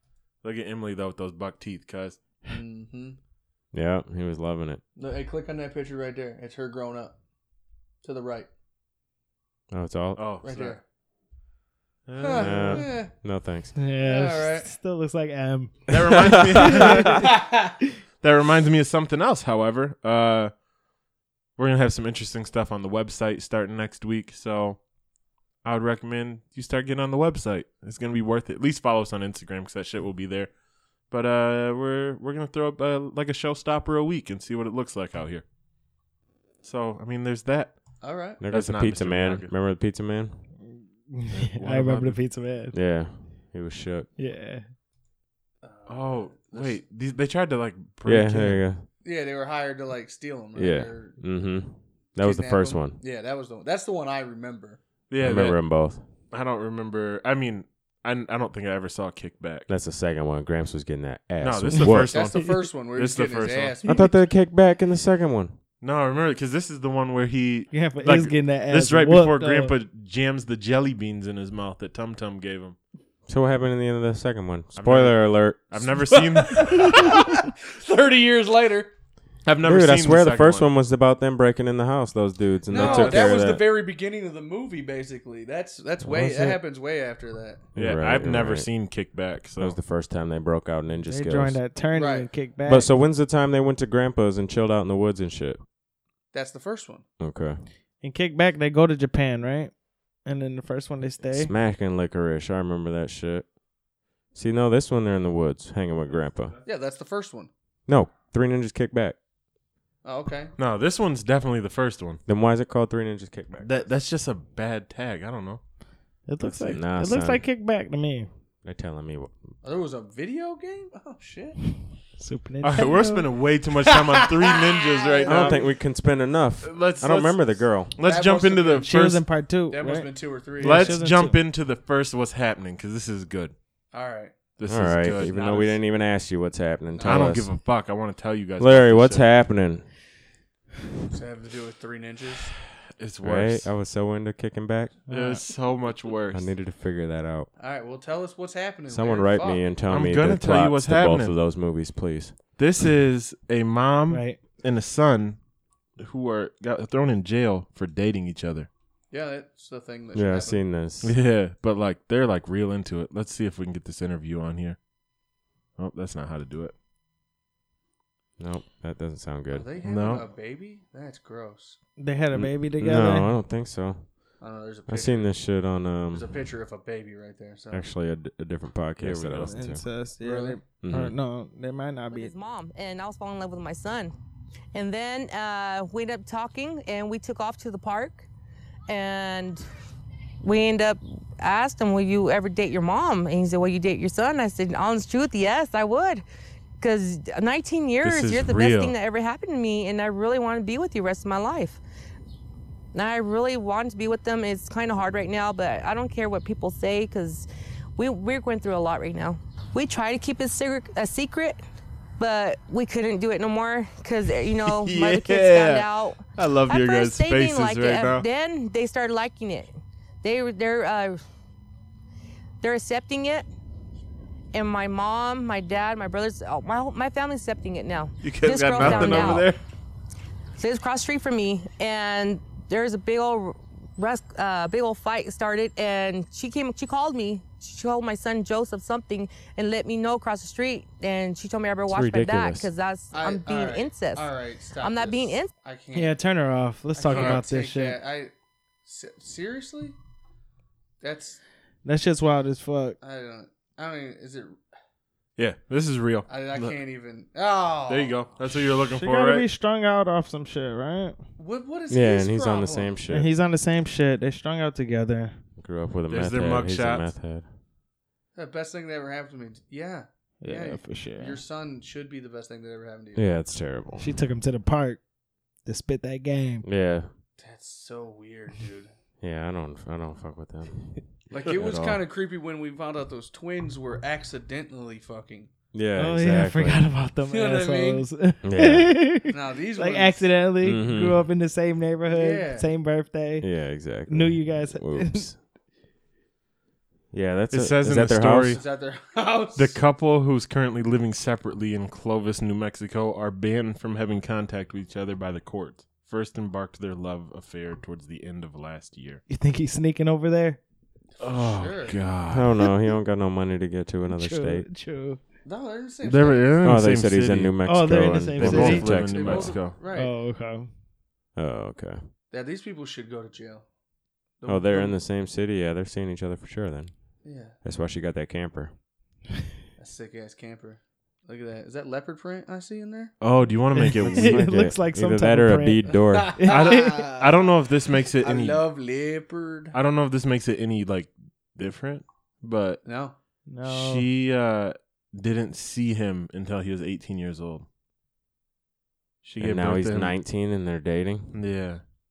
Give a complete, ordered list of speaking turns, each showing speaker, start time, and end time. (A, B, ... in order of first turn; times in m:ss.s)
0:00.4-0:02.2 A
0:02.4-0:03.2 B
0:03.7-0:04.8 C
0:05.0-0:07.1 B
0:08.0-0:08.5 B
0:09.7-0:10.2 C
0:10.2-0:10.8 A
0:10.4-0:10.8 B
0:12.0-0:12.8 A
0:12.2-0:13.1 B
0:12.3-0:13.8 C
0:13.8-0:17.3 D
0:14.0-0:14.7 B
0:15.9-0:17.4 A
0:16.3-0:16.8 C
0:17.1-0:17.7 B
0:18.2-0:20.5 A
0:21.6-0:24.8 A
0:25.6-0:30.5 A
0:31.1-0:35.4 A
0:36.6-0:37.8 A
0:38.0-0:38.4 B
0:38.4-0:40.4 C
0:38.5-0:39.5 A
0:40.7-0:42.7 D
0:41.3-0:42.2 A
0:42.7-0:44.1 C
0:44.2-0:44.6 D
0:45.6-0:46.8 B
0:45.9-0:48.6 A
0:48.0-0:48.8 C
0:49.0-0:51.2 B
0:50.5-0:53.0 C
0:52.2-0:54.8 B
0:55.1-0:55.6 A
0:55.2-0:56.0 C
0:56.3-0:59.7 A
0:59.7-1:02.2 C
1:01.4-1:03.8 A
1:01.7-1:02.0 D
1:02.0-1:04.1 B
1:03.8-1:05.6 C
1:05.8-1:12.8 A
1:07.7-1:09.7 D
1:13.3-1:15.8 C
1:14.8-1:17.3 A
1:16.1-1:18.9 B
1:19.4-1:20.7 A
1:19.6-1:23.6 C
1:22.7-1:27.7 B
1:22.7-1:23.4 A
1:26.0-1:26.6 C
1:27.7-1:28.7 C
1:27.8-1:29.8 A
1:29.6-1:31.6 C
1:31.0-1:32.9 D
1:31.9-1:32.3 B
1:32.6-1:35.6 C
1:36.3-1:37.0 B
1:37.2-1:37.6 C
1:38.0-1:41.5 D
1:41.3-1:43.5 C
1:44.3-1:46.6 C
1:46.6-1:47.5 B
1:47.9-1:49.2 C
1:50.0-1:50.5 B
1:50.6-1:52.2 A
1:52.2-1:53.9 C
1:53.6-1:55.6 A
1:56.3-1:58.3 D
1:56.4-1:56.8 A
1:56.6-1:57.4 C
1:58.6-1:59.5 C
1:59.6-2:01.7 B
2:02.2-2:03.3 D
2:02.6-2:05.7 A
2:03.9-2:05.6 B
2:05.2-2:07.9 C
2:06.6-2:09.3 A
2:08.0-2:08.9 B
2:08.8-2:11.4 D
2:09.7-2:11.0 B
2:10.6-2:13.5 A
2:13.9-2:14.3 B
2:14.6-2:15.6 A
2:14.7-2:17.5 C
2:15.1-2:15.8 B
2:16.9-2:17.4 B
2:17.0-2:19.3 A
2:18.6-2:19.9 C
2:21.1-2:22.5 B
2:23.0-2:23.7 A
2:23.2-2:25.0 C
2:25.1-2:25.4 D
2:25.1-2:26.5 A
2:26.3-2:27.5 C
2:27.6-2:29.7 B
2:28.9-2:32.3 C
2:29.9-2:31.3 A
2:32.6-2:35.4 A
2:34.1-2:34.4 D
2:36.0-2:38.7 A
2:39.1-2:40.6 B
2:40.1-2:41.1 C
2:41.0-2:44.8 A
2:45.8-2:46.7 A
2:48.4-2:49.7 C
2:49.5-2:51.8 B
2:49.8-2:50.2 A
2:52.0-2:53.3 D
2:52.3-2:54.1 C
2:54.4-2:55.3 B
2:54.9-2:56.3 C
2:56.1-2:57.8 B
2:57.7-2:59.8 C
2:59.0-2:59.6 A
2:59.4-3:02.3 D
3:00.2-3:00.6 B
3:00.8-3:01.1 C
3:02.1-3:04.1 E
3:04.7-3:08.3 E
3:08.9-3:09.6 E
3:10.4-3:16.2 E
3:16.8-3:21.8 E
3:18.0-3:18.9 A
3:22.9-3:31.6 E
3:32.2-3:39.7 E
3:34.6-3:38.2 A
3:40.2-3:41.2 E
3:42.6-3:43.4 E
3:44.5-3:49.5 E
3:48.2-3:49.6 A
3:50.6-4:05.5 E
4:01.9-4:02.7 C
4:03.1-4:06.2 B
4:05.9-4:08.0 D
4:06.9-4:08.3 B
4:07.1-4:07.4 A
4:08.8-4:10.0 B
4:11.0-4:11.4 B
4:11.8-4:13.0 D
4:13.0-4:14.6 B
4:15.4-4:16.8 A
4:16.3-4:18.2 B
4:17.9-4:19.4 A
4:18.9-4:21.2 D
4:21.4-4:23.0 B
4:21.9-4:23.3 C
4:23.1-4:25.4 D
4:25.6-4:27.5 C
4:26.1-4:27.1 A
4:28.3-4:33.2 B
4:30.4-4:31.4 D
4:33.1-4:34.1 C
4:34.0-4:35.0 D
4:35.6-4:36.6 D
4:36.6-4:37.1 C
4:37.4-4:38.9 B
4:39.2-4:42.0 C
4:41.3-4:45.5 B
4:45.7-4:46.9 C
4:46.0-4:53.5 D
4:47.3-4:48.1 B
4:48.4-4:49.0 C
4:49.3-4:50.3 B
4:50.6-4:51.3 C
4:52.1-4:52.7 B
4:53.4-4:55.4 C
4:54.0-4:55.3 D
4:57.1-4:58.6 C
4:57.5-4:58.6 A
4:58.5-4:59.8 B
4:59.5-5:09.2 A
5:09.3-5:10.6 D
5:11.2-5:12.0 B
5:11.2-5:12.6 A
5:12.3-5:14.7 C
5:14.1-5:15.2 D
5:15.4-5:16.5 B
5:16.0-5:17.6 A
5:16.6-5:19.6 C
5:17.6-5:19.1 D
5:18.4-5:19.8 A
5:18.9-5:20.1 B
5:19.8-5:20.7 D
5:21.4-5:22.1 C
5:22.3-5:23.6 B
5:24.4-5:25.0 B
5:24.4-5:28.7 C
5:27.2-5:27.6 B
5:29.8-5:33.1 B
5:33.2-5:34.4 A
5:33.7-5:37.0 D
5:33.9-5:36.3 C
5:36.1-5:37.6 B
5:36.5-5:38.6 A
5:38.1-5:39.8 B
5:39.7-5:42.8 A
5:42.8-5:43.2 B
5:43.5-5:44.1 D
5:43.6-5:47.7 A
5:49.2-5:50.2 A
5:49.4-5:51.3 C
5:51.3-5:51.8 A